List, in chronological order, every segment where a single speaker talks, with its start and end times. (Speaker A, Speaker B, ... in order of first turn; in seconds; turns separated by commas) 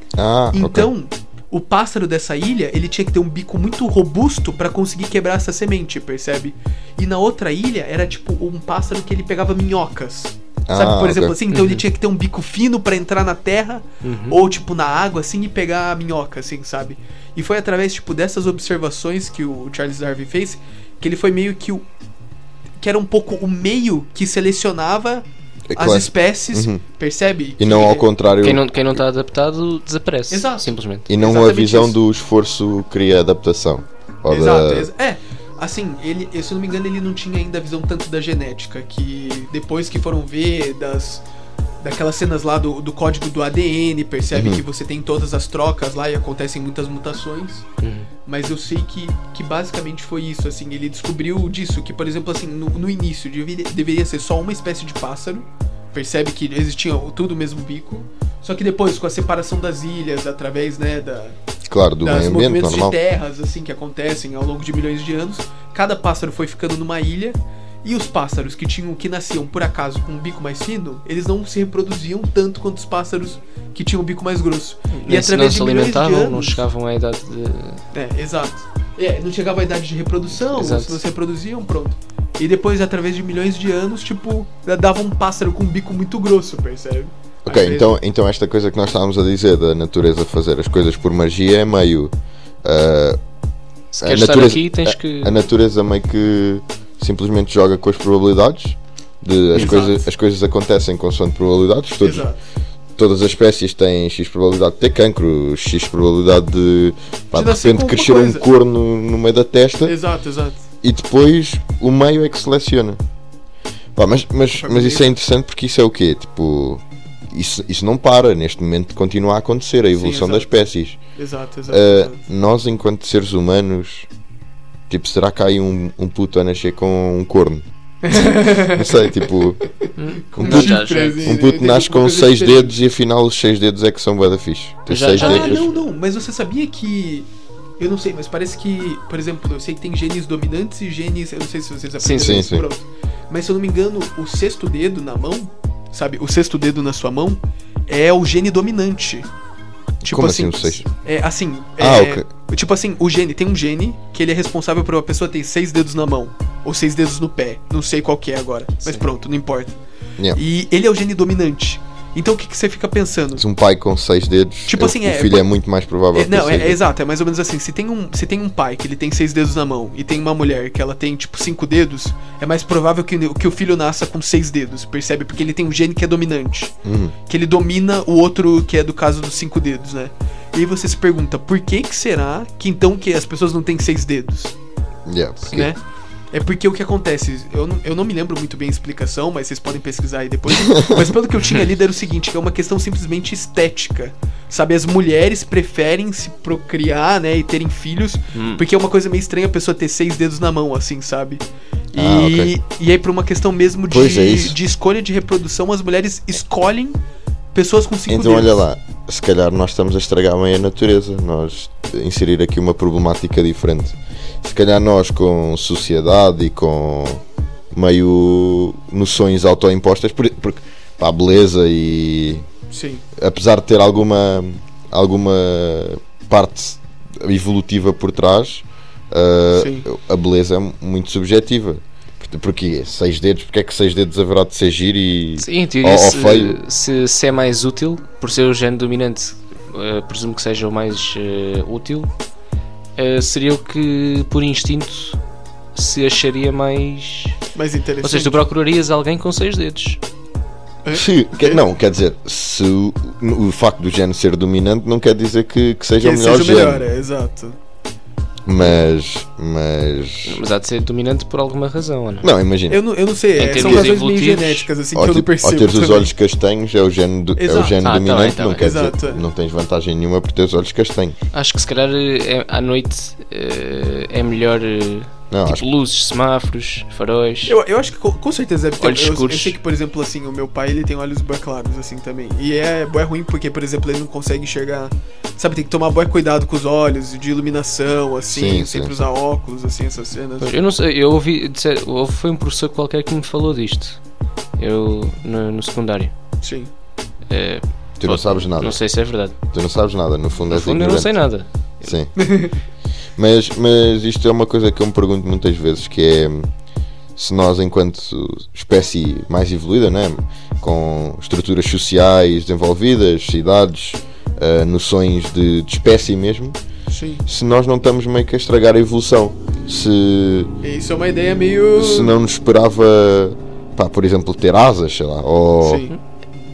Speaker A: 0.2-0.9, Speaker B: 0.5-21.9, Speaker A: 10.7-11.4, Speaker C: 11.5-11.8, Speaker C: 14.0-14.4, Speaker B: 22.8-28.1, Speaker A: 25.7-26.8, Speaker A: 27.6-28.6, Speaker C: 28.4-31.1, Speaker B: 30.3-32.0, Speaker A: 31.1-34.9, Speaker B: 34.3-41.2, Speaker B: 41.8-47.7, Speaker A: 44.3-44.6, Speaker C: 47.8-48.1, Speaker B: 48.3-61.4, Speaker A: 61.7-63.0, Speaker B: 62.0-76.6, Speaker C: 74.9-77.8, Speaker B: 77.9-87.9, Speaker C: 80.5-81.0, Speaker A: 87.5-93.2, Speaker C: 93.9-95.4, Speaker A: 94.0-102.3, Speaker B: 99.5-100.1, Speaker B: 102.0-102.4, Speaker A: 103.0-110.0, Speaker B: 107.3-108.5, Speaker B: 109.8-110.7, Speaker A: 110.8-113.0, Speaker A: 114.0-121.0, Speaker B: 114.6-115.1, Speaker B: 120.0-120.5, Speaker B: 121.2-122.2, Speaker A: 121.7-124.1, Speaker A: 124.9-129.6, Speaker B: 128.0-129.2, Speaker C: 130.0-131.3, Speaker B: 130.3-132.8, Speaker A: 130.4-135.7, Speaker C: 134.9-135.8, Speaker B: 135.2-149.3, Speaker C: 142.0-142.4, Speaker A: 142.2-142.7, Speaker A: 150.0-150.8, Speaker B: 150.0-159.8, Speaker A: 151.8-152.3, Speaker B: 160.3-163.4, Speaker A: 163.4-166.8, Speaker B: 164.7-165.5, Speaker B: 166.1-176.8, Speaker A: 176.8-177.2, Speaker B: 177.3-184.6, Speaker A: 185.1-185.7, Speaker B: 185.5-185.8, Speaker B: 186.3-207.0, Speaker A: 190.5-191.1, Speaker C: 198.3-198.6, Speaker A: 201.9-202.5, Speaker A: 203.9-204.6, Speaker B: 207.5-208.6, Speaker A: 208.1-222.5, Speaker B: 222.7-223.0, Speaker A: 223.2-236.6, Speaker B: 229.6-229.9, Speaker C: 235.4-242.1, Speaker C: 243.0-245.2, Speaker C: 245.8-247.4, Speaker B: 247.6-248.3, Speaker C: 248.0-250.0, Speaker B: 250.8-251.6, Speaker A: 250.9-256.9, Speaker B: 256.0-257.6, Speaker A: 258.5-260.4, Speaker C: 260.2-262.3, Speaker A: 262.2-262.8, Speaker B: 262.7-266.1, Speaker C: 263.4-264.7, Speaker A: 263.6-263.9, Speaker A: 264.9-271.2, Speaker B: 267.4-267.8, Speaker C: 267.8-268.7, Speaker B: 268.6-269.2, Speaker C: 271.3-277.6, Speaker A: 275.3-275.7, Speaker B: 277.5-290.5, Speaker C: 278.8-279.6, Speaker A: 288.3-289.0, Speaker C: 290.4-294.0, Speaker C: 294.6-296.1, Speaker B: 296.4-296.7, Speaker C: 297.3-299.4, Speaker A: 298.0-298.8, Speaker A: 299.4-301.2, Speaker C: 300.5-302.0, Speaker A: 301.8-302.1, Speaker B: 302.2-302.5, Speaker A: 303.2-306.5, Speaker A: 307.2-316.6, Speaker B: 316.9-317.2, Speaker A: 317.3-320.5, Speaker B: 320.6-322.2, Speaker A: 321.8-325.9, Speaker B: 325.6-325.9